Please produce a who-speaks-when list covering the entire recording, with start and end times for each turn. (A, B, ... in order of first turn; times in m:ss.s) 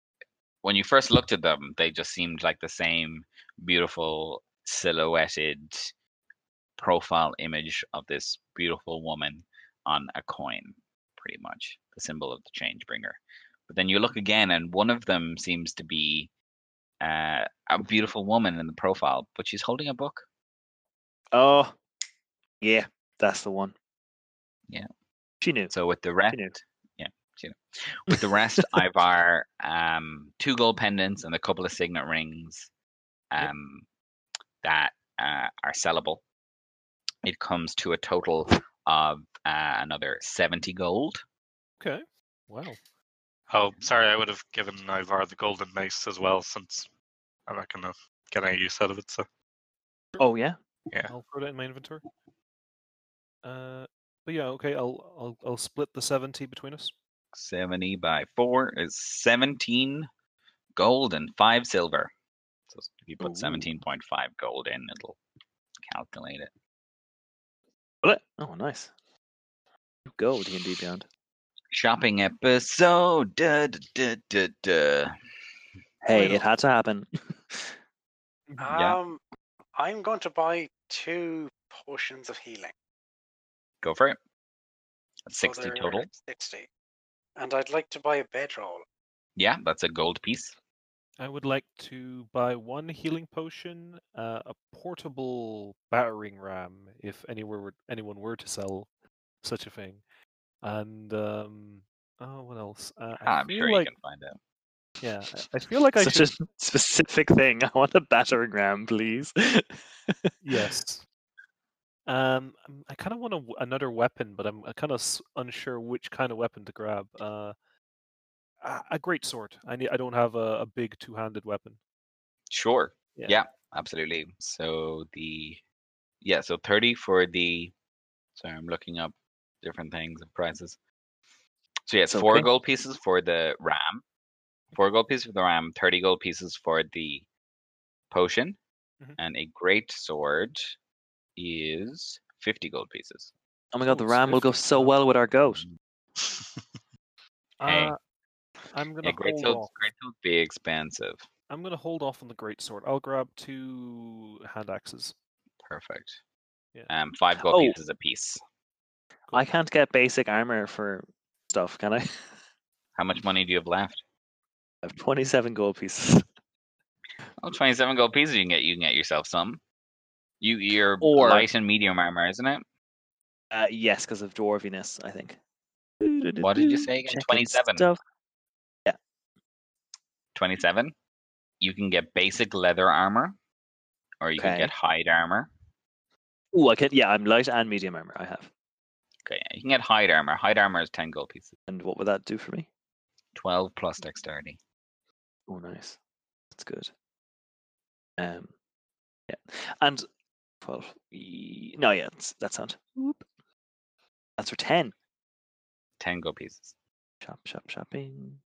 0:00.6-0:05.9 A
0:06.8-0:16.3 A
0:17.0-0:20.3 A
0:21.3-0:21.8 B
0:22.6-0:23.7 B
0:25.4-0:25.7 B
0:25.7-0:32.7 A
0:28.1-0:28.8 B
0:33.3-0:33.8 A
0:34.6-0:36.2 A
0:37.2-0:41.2 A
0:41.8-0:42.8 C
0:43.5-0:46.9 D
0:47.5-0:49.2 D
0:50.2-0:50.6 B
0:51.1-0:52.0 C
0:53.4-0:56.9 C
0:57.3-1:00.1 A
1:00.8-1:02.1 A
1:02.7-1:05.2 A
1:03.2-1:03.7 B
1:05.8-1:06.5 A
1:08.0-1:08.9 B
1:10.1-1:11.1 B
1:11.7-1:15.1 A
1:16.0-1:17.7 B
1:16.1-1:16.4 C
1:18.6-1:19.2 E
1:18.7-1:19.0 A
1:19.8-1:22.7 E
1:23.8-1:24.2 A
1:25.2-1:26.1 A
1:25.4-1:26.7 E
1:27.4-1:28.8 E
1:29.4-1:30.6 A
1:31.2-1:38.9 C
1:39.4-1:40.0 C
1:40.6-1:43.9 C
1:43.2-1:44.4 A
1:45.0-1:46.3 C
1:45.9-1:50.6 B
1:50.4-1:51.0 C
1:52.1-1:57.5 C
1:58.6-2:01.8 C
2:02.5-2:05.6 A
2:06.2-2:07.7 A
2:08.3-2:10.8 A
2:11.9-2:14.0 A
2:12.1-2:12.5 B
2:14.7-2:17.3 A
2:18.1-2:18.6 A
2:19.2-2:20.7 A
2:21.4-2:23.3 A
2:23.7-2:25.6 B
2:23.8-2:24.9 C
2:25.5-2:25.8 A
2:26.2-2:26.6 D
2:27.6-2:28.0 C
2:27.6-2:27.9 A
2:28.7-2:29.7 C
2:29.0-2:31.3 A
2:31.5-2:35.1 C
2:35.6-2:36.2 A
2:36.9-2:38.4 A
2:37.4-2:37.8 B
2:39.3-2:42.2 B
2:42.9-2:44.0 A
2:44.8-2:46.2 B
2:47.4-2:49.6 A
2:50.4-2:52.6 A
2:51.0-2:51.5 B
2:53.5-2:55.4 B
2:56.0-2:58.0 B
2:56.4-2:57.9 A
3:00.3-3:00.9 A
3:01.6-3:03.4 A
3:04.2-3:05.5 A
3:04.4-3:04.7 B
3:06.5-3:08.5 B
3:09.2-3:11.5 A
3:11.7-3:12.7 B
3:13.3-3:14.6 A
3:15.5-3:16.0 B
3:16.5-3:16.9 B
3:18.2-3:18.5 B
3:19.3-3:20.0 B
3:20.6-3:23.2 B
3:24.4-3:24.9 B
3:26.0-3:26.7 A
3:27.2-3:28.4 B